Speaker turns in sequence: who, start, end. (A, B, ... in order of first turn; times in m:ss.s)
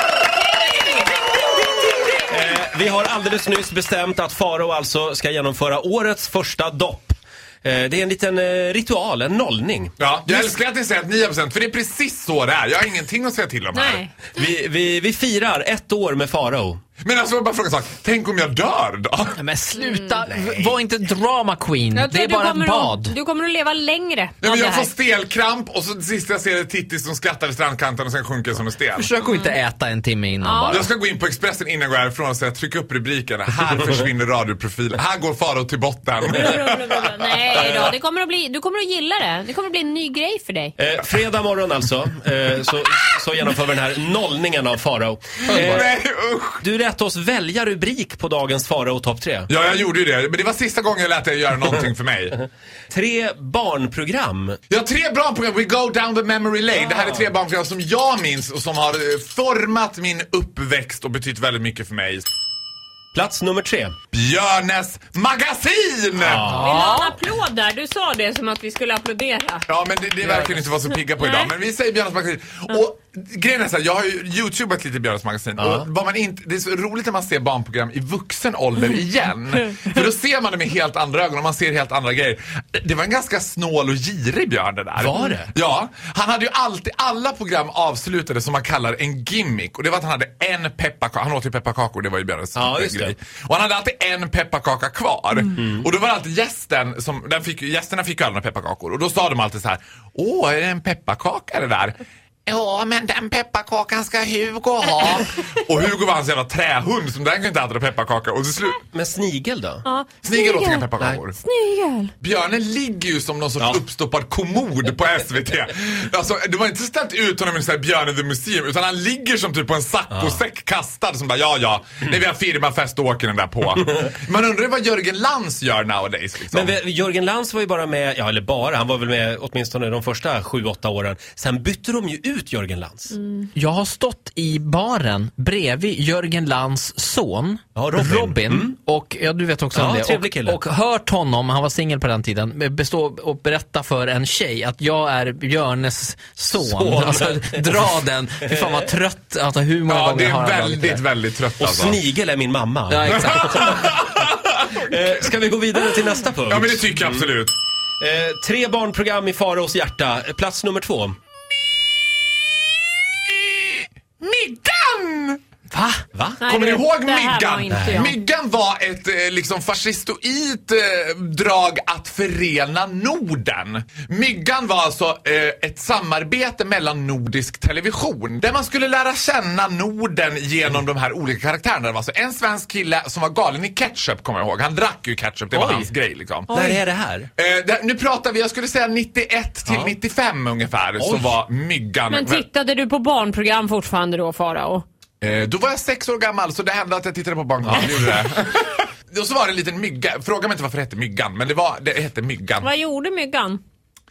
0:00.7-0:00.9 A
0:02.3-0:10.5 B
0:10.0-0:14.0 C
0:13.7-0:14.1 A
0:14.3-0:16.8 B
0:17.0-0:19.4 C
0:19.3-0:23.2 D
0:20.4-0:20.7 B
0:21.9-0:24.9 A
0:24.4-0:29.1 C
0:28.9-0:30.9 D
0:29.2-0:29.6 A
0:30.4-0:30.9 A
0:30.7-0:37.9 C
0:36.4-0:40.8 A
0:40.8-0:45.9 B
0:45.5-0:46.6 C
0:46.6-0:49.5 B
0:49.5-0:52.4 C
0:52.9-0:54.6 B
0:54.7-1:02.2 C
0:56.8-0:57.3 B
1:03.1-1:04.0 B
1:04.1-1:06.6 C
1:06.2-1:06.7 B
1:06.5-1:07.2 D
1:06.5-1:09.6 A
1:09.7-1:48.8 C
1:10.2-1:10.6 B
1:15.6-1:15.9 B
1:25.0-1:25.5 B
1:32.6-1:33.2 B
1:48.9-1:49.8 B
1:49.8-1:50.9 A
1:50.2-1:51.4 C
1:51.4-1:52.1 A
1:52.2-2:06.8 C
1:53.6-1:53.8 B
2:00.1-2:00.4 B
2:06.5-2:13.2 B
2:13.6-2:31.1 D
2:17.8-2:18.8 B
2:19.7-2:20.6 B
2:26.5-2:27.7 B
2:29.9-2:32.0 C
2:31.6-2:37.2 B
2:32.9-2:33.9 D
2:33.2-2:34.8 C
2:36.5-2:37.6 C
2:38.0-2:41.2 B
2:43.3-2:45.4 C
2:46.1-2:46.4 B
2:46.4-2:48.2 A
2:46.5-3:06.8 C
2:47.7-2:48.1 B
3:05.5-3:05.9 B
3:06.5-3:07.3 B
3:07.4-3:12.5 C
3:09.7-3:10.0 B
3:11.0-3:11.4 B
3:12.1-3:14.8 A
3:15.2-3:22.7 C
3:17.6-3:18.0 B
3:22.6-3:23.6 A